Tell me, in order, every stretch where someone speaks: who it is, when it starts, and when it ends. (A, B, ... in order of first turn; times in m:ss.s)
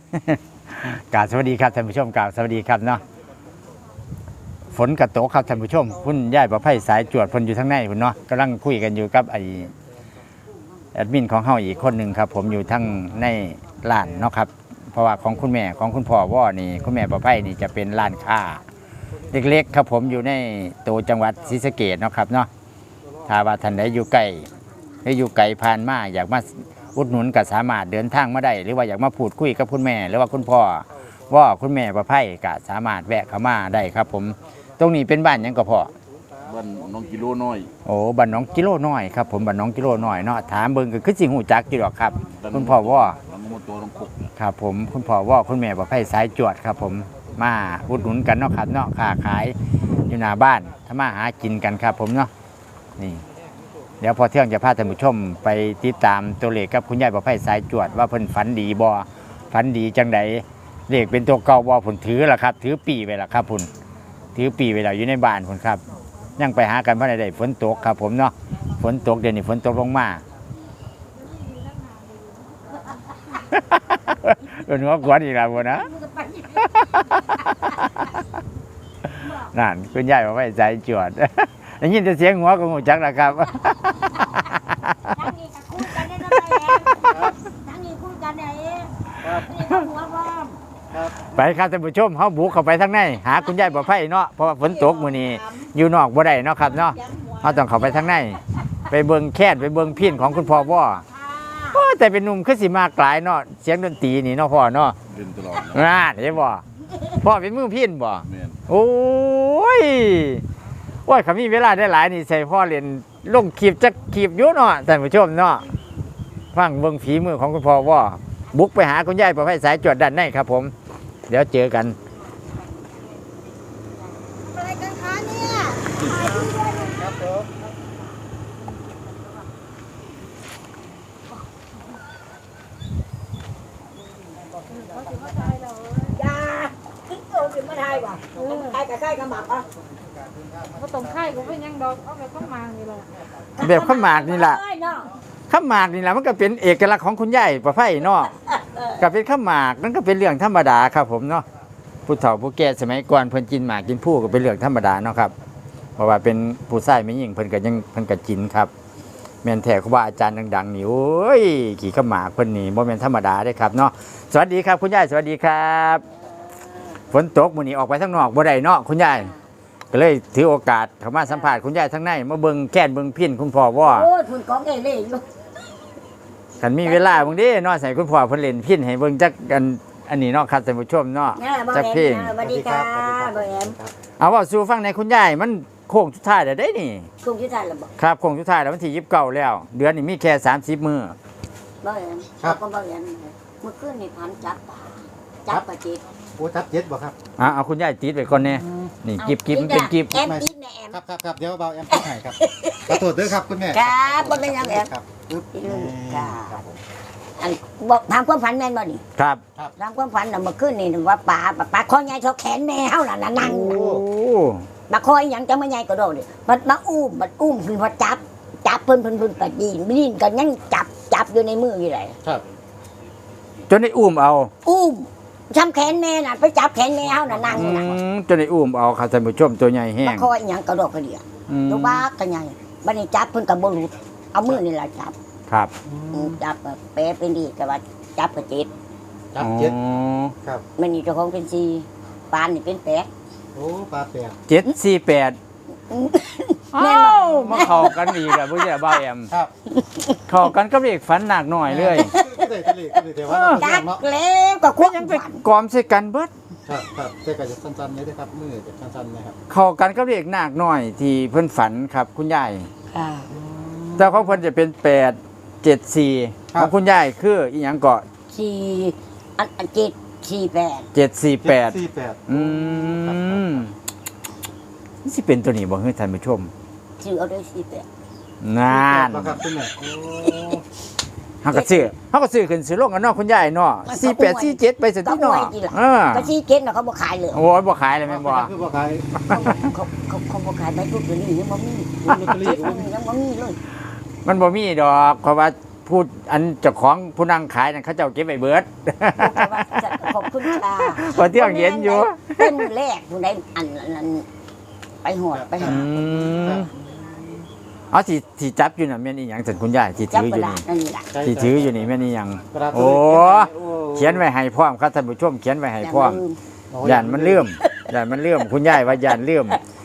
0:00.1-0:03.0 A
0:04.7-0:09.7 A
0:10.9-0:18.6 A
0:19.3-0:22.5 A
0:23.3-0:24.5 A
0:25.0-0:35.9 A
0:36.5-0:37.7 B
0:37.8-0:43.2 A
0:43.3-0:44.3 B
0:44.4-0:49.5 A
0:50.0-0:52.3 A
0:53.0-0:53.2 A
0:54.0-1:03.7 A
1:04.3-1:05.8 A
1:06.4-1:10.2 A
1:13.5-1:15.9 A
1:15.9-1:16.7 C
1:16.4-1:18.1 A
1:19.2-1:25.2 A
1:25.0-1:30.6 C
1:30.9-1:31.2 D
1:31.2-1:41.0 A
1:34.9-1:35.3 C
1:36.9-1:37.5 C
1:41.3-1:41.7 C
1:41.7-1:45.0 A
1:45.2-1:45.6 B
1:45.5-1:50.4 A
1:51.0-1:55.6 A
1:56.5-2:00.7 A
2:01.3-2:02.0 A
2:04.6-2:07.2 C
2:06.8-2:07.5 D
2:14.8-2:15.8 E
2:15.8-2:19.6 C
2:20.6-2:21.5 D
2:20.7-2:23.1 E
2:23.6-2:24.6 A
2:23.6-2:25.1 C
2:25.5-2:28.3 A
2:28.4-2:29.0 C
2:29.0-2:31.4 A
2:32.0-2:35.3 A
2:36.0-2:38.7 A
2:39.4-2:46.0 A
2:47.1-2:49.3 A
2:49.9-2:54.1 A
2:53.8-2:55.2 C
2:56.6-3:02.3 A
2:56.8-2:57.3 C
3:01.4-3:03.8 C
3:02.3-3:03.9 D
3:04.2-3:07.1 A
3:07.2-3:07.9 C
3:08.0-3:11.2 A
3:11.8-3:16.0 C
3:16.4-3:17.2 D
3:17.4-3:20.2 A
3:18.6-3:18.9 D
3:19.2-3:21.0 C
3:20.2-3:26.8 D
3:21.9-3:23.0 C
3:23.7-3:24.9 C
3:25.5-3:26.6 C
3:27.4-3:29.0 C
3:29.2-3:29.4 A
3:29.8-3:33.8 C
3:33.4-3:34.7 A
3:33.7-3:34.0 D
3:34.9-3:42.2 C
3:43.7-3:44.5 A
3:44.6-3:47.9 C
3:47.1-3:47.8 D
3:47.5-3:50.3 A
3:50.0-3:55.1 C
3:51.5-3:52.0 A
3:55.5-3:55.7 A
3:55.8-3:56.4 D
3:56.1-3:58.7 C
3:59.3-3:59.7 D
3:59.4-4:00.3 A
4:00.8-4:03.1 C
4:03.5-4:04.4 D
4:04.5-4:05.4 A
4:05.9-4:08.9 C
4:06.7-4:09.3 A
4:09.7-4:10.2 C
4:10.3-4:12.1 A
4:11.6-4:14.0 D
4:12.0-4:15.4 C
4:13.3-4:13.7 A
4:14.8-4:16.3 A
4:16.6-4:19.4 D
4:19.5-4:22.7 A
4:22.9-4:23.3 C
4:23.3-4:24.4 D
4:24.0-4:28.0 A
4:28.3-4:30.9 C
4:30.9-4:33.7 A
4:31.4-4:33.6 D
4:35.0-4:36.5 A
4:37.0-4:37.9 C
4:38.4-4:39.4 A
4:38.7-4:40.6 D
4:41.4-4:46.3 A
4:41.5-4:41.9 C
4:43.9-4:47.4 C
4:47.3-4:48.5 A
4:48.0-4:49.2 D
4:49.2-4:53.6 C
4:52.1-4:52.9 D
4:54.2-5:02.6 A
4:59.2-5:04.2 C
5:05.0-5:05.9 C
5:05.3-5:07.1 D
5:05.6-5:06.7 A
5:07.9-5:10.6 A
5:10.1-5:11.1 C
5:11.1-5:12.0 D
5:11.2-5:16.2 A
5:12.5-5:14.2 D
5:15.8-5:16.4 C
5:16.7-5:17.5 D
5:16.8-5:19.6 A
5:17.6-5:17.8 C